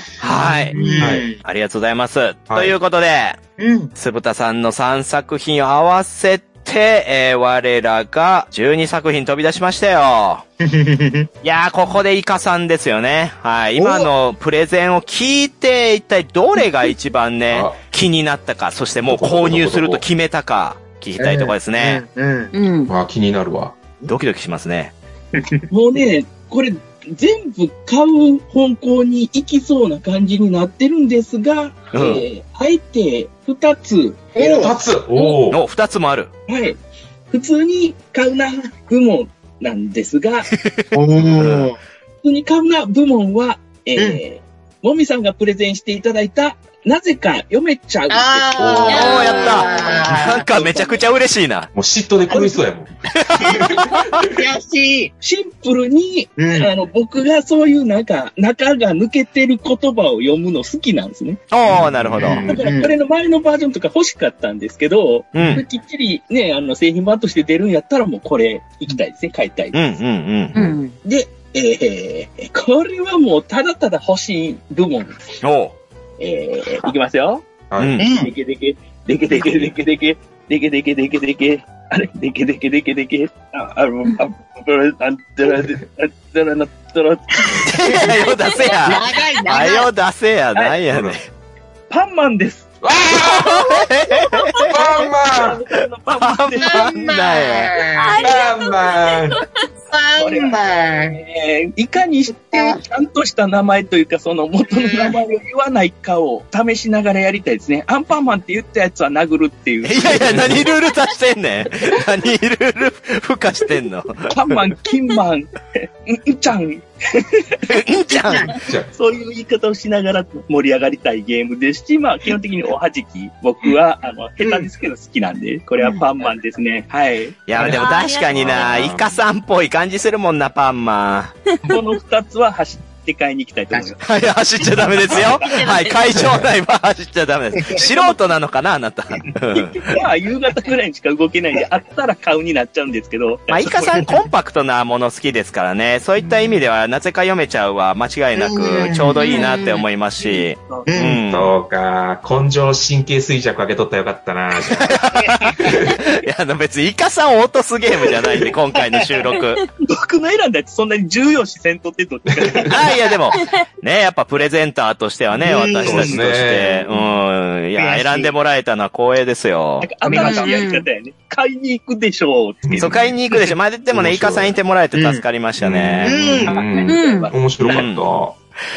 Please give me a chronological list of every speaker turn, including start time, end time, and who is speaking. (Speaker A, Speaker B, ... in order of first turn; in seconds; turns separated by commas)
Speaker A: 0.2-3.4, Speaker B: 0.3-1.4, Speaker C: 0.5-1.3, Speaker C: 2.5-2.8, Speaker B: 3.6-3.9, Speaker A: 4.0-10.4, Speaker B: 10.6-11.3, Speaker A: 11.4-22.0, Speaker B: 13.8-14.1, Speaker C: 17.5-17.8, Speaker C: 19.0-20.0, Speaker B: 21.2-22.5, Speaker D: 22.5-22.9, Speaker C: 22.9-23.8, Speaker A: 24.1-24.9, Speaker B: 25.4-25.7, Speaker E: 25.7-34.8, Speaker A: 31.9-32.2, Speaker B: 34.4-34.7, Speaker C: 34.4-35.6, Speaker A: 35.5-36.3, Speaker E: 36.5-36.8, Speaker E: 37.3-40.5, Speaker A: 40.7-41.7, Speaker B: 40.9-41.8, Speaker E: 42.2-48.6, Speaker B: 48.1-50.5, Speaker C: 48.5-50.3, Speaker A: 48.9-51.7, Speaker E: 49.6-51.0, Speaker C: 51.7-54.5, Speaker E: 52.3-52.6, Speaker A: 53.1-54.2, Speaker B: 53.4-55.1, Speaker E: 55.2-61.4, Speaker B: 56.4-56.7, Speaker A: 61.5-62.5, Speaker C: 61.6-62.7, Speaker B: 62.4-62.9, Speaker E: 62.5-69.8, Speaker A: 65.3-65.6, Speaker C: 65.4-65.6, Speaker A: 69.7-70.7, Speaker D: 70.5-71.0, Speaker E: 71.0-75.2, Speaker A: 75.4-75.8, Speaker E: 76.2-77.5, Speaker C: 77.7-78.0, Speaker A: 77.8-78.1, Speaker B: 78.0-78.3, Speaker E: 78.1-88.1, Speaker C: 79.3-79.7, Speaker B: 87.5-88.0, Speaker A: 87.6-91.2, Speaker D: 88.4-88.8, Speaker B: 88.8-89.9, Speaker C: 90.9-91.2, Speaker E: 91.9-92.7, Speaker C: 92.8-93.7, Speaker A: 93.2-94.7, Speaker E: 94.2-96.9, Speaker C: 94.7-95.6, Speaker A: 96.2-97.7, Speaker B: 96.6-98.3, Speaker D: 98.0-99.7, Speaker C: 98.2-99.4, Speaker B: 99.9-101.2, Speaker E: 100.2-110.6, Speaker B: 104.7-105.2, Speaker A: 109.8-114.3, Speaker C: 110.1-110.7, Speaker E: 114.3-117.8, Speaker A: 117.7-118.5, Speaker B: 118.2-118.6, Speaker C: 118.7-118.9, Speaker E: 118.9-127.5, Speaker B: 124.4-124.7, Speaker A: 127.5-131.4, Speaker C: 127.6-129.2, Speaker D: 127.6-128.8, Speaker E: 131.7-134.1, Speaker A: 134.0-139.9, Speaker D: 135.1-136.2, Speaker C: 136.1-136.5, Speaker E: 137.8-138.2, Speaker E: 139.6-144.2, Speaker A: 143.5-151.5, Speaker C: 146.2-146.7, Speaker B: 148.4-149.8, Speaker E: 150.6-150.9, Speaker B: 150.9-151.2, Speaker C: 151.3-156.0, Speaker A: 154.7-159.6, Speaker E: 159.8-162.9, Speaker C: 162.3-162.8, Speaker A: 162.7-169.9, Speaker D: 163.3-163.6, Speaker B: 165.4-166.2, Speaker C: 165.7-167.2, Speaker B: 167.8-168.3, Speaker E: 169.8-173.1, Speaker B: 170.1-170.6, Speaker D: 170.1-170.9, Speaker C: 172.6-173.2, Speaker A: 172.8-176.2, Speaker C: 173.9-174.6, Speaker B: 174.9-175.2, Speaker C: 175.6-178.4, Speaker B: 176.1-176.8, Speaker E: 176.4-177.9, Speaker D: 176.9-177.3, Speaker A: 177.6-178.1